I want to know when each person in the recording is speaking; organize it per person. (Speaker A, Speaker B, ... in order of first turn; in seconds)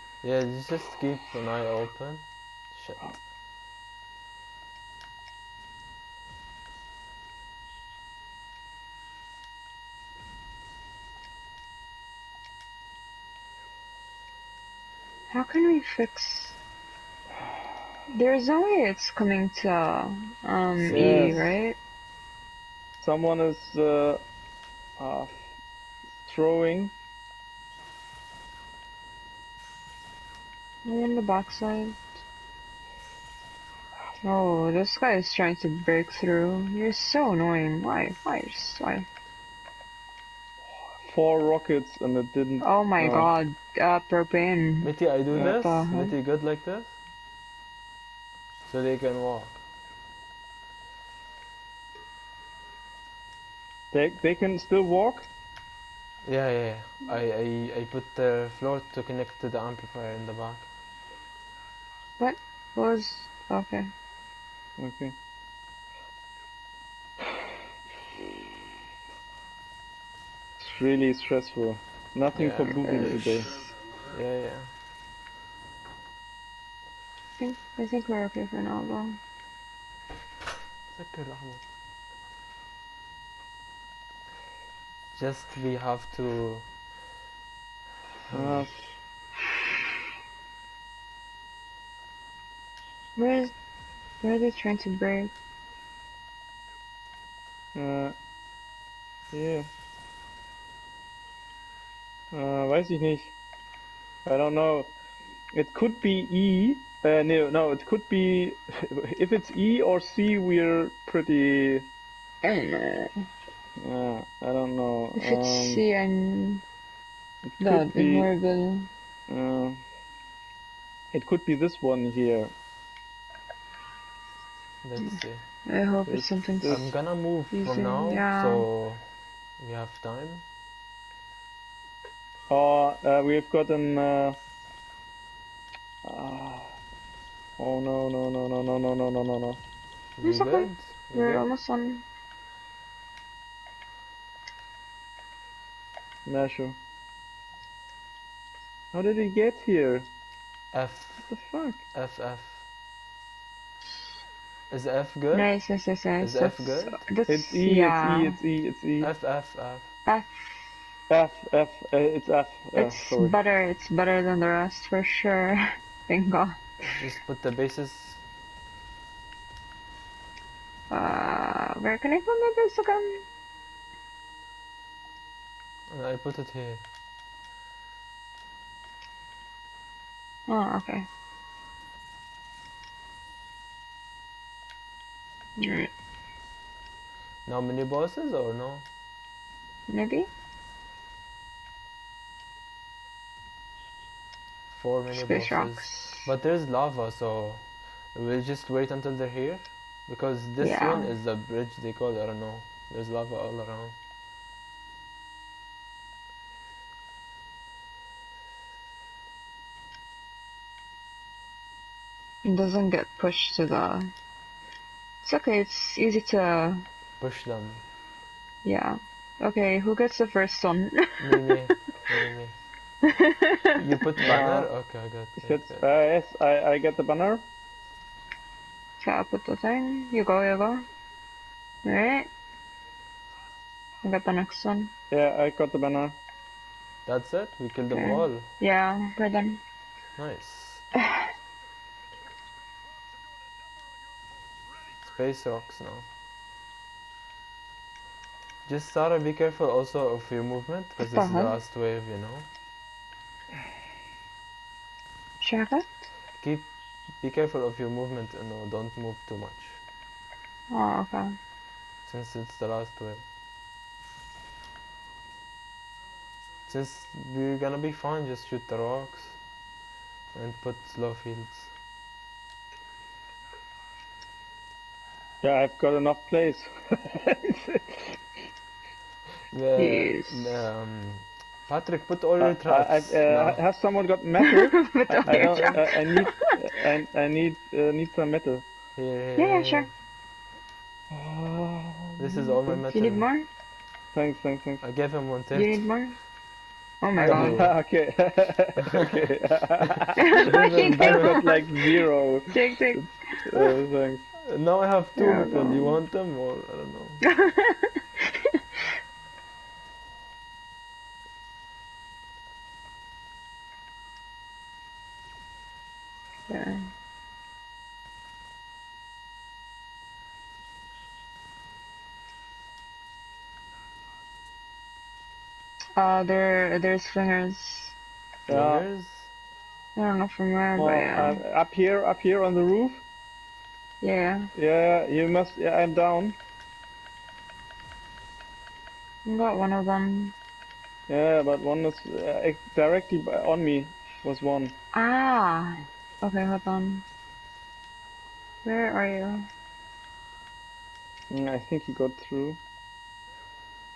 Speaker A: 0.2-3.1, 20.8-21.4, 44.8-46.9, 48.7-49.6, 56.2-60.7, 72.3-73.2, 74.1-74.7, 80.9-81.6, 85.1-86.7, 88.3-88.7, 124.8-125.4, 126.7-129.0, 129.6-130.4, 140.2-141.4, 150.7-151.3, 151.9-152.6, 154.7-155.5, 156.2-157.0, 159.0-159.9, 166.9-168.2, 175.9-176.8, 187.4-188.8, 194.7-197.6, 198.1-203.9, 217.2-217.8, 221.2-222.6, 223.7-225.8, 237.1-238.5, 240.2-240.8, 245.0-246.1, 248.7-252.5, 256.4-259.8, 262.1-263.2, 266.7-269.4, 270.3-271.7, 279.5-283.6, 285.3-285.8, 288.9-289.9, 292.2-293.2, 294.8-295.9, 297.2-297.7, 300.4-301.4, 304.4-307.2, 328.5-329.3
Speaker B: 15.3-16.6, 18.1-21.8, 30.8-32.2, 34.2-39.1, 42.6-46.1, 62.2-63.9, 72.8-73.2, 77.4-79.2, 93.2-93.5, 94.2-95.3, 112.4-113.3, 115.1-116.6, 117.6-118.9, 125.0-126.9, 127.5-128.6, 140.2-142.0, 155.3-158.4, 160.1-160.7, 162.7-167.0, 170.9-173.2, 180.5-181.1, 185.6-185.9, 189.9-190.3, 195.1-196.3, 200.6-201.1, 212.4-214.1, 215.2-216.8, 218.6-221.3, 223.1-223.8, 229.0-230.8, 231.8-232.3, 234.0-234.9, 237.9-239.6, 251.0-251.5, 255.4-256.1, 260.7-261.3, 279.8-280.6, 284.4-286.6, 289.4-289.9, 292.9-293.5, 295.5-296.2, 297.0-297.6, 300.2-303.8, 305.1-306.0, 307.3-308.8, 316.5-316.9, 325.9-327.9, 329.9-331.4, 334.0-334.5, 339.2-340.3, 344.9-347.1, 348.6-349.5
Speaker C: 20.9-21.5, 23.0-24.2, 25.0-25.4, 26.2-26.9, 41.0-43.3, 53.9-55.3, 64.8-65.1, 70.6-73.6, 88.3-88.7, 97.7-98.1, 99.3-99.7, 102.3-103.3, 104.2-104.9, 105.5-111.9, 113.8-115.8, 117.5-118.3, 119.3-119.8, 121.1-122.5, 126.1-126.8, 132.5-134.4, 136.0-136.8, 137.6-139.6, 146.2-146.8, 148.9-150.1, 151.2-151.8, 157.3-159.1, 161.1-163.3, 224.2-224.7, 225.4-227.4, 235.1-236.2, 275.4-278.2, 282.4-288.6, 291.1-292.8, 294.1-294.8, 297.2-304.2, 328.5-328.9, 330.8-333.0, 334.6-336.4, 341.1-344.8, 351.3-352.6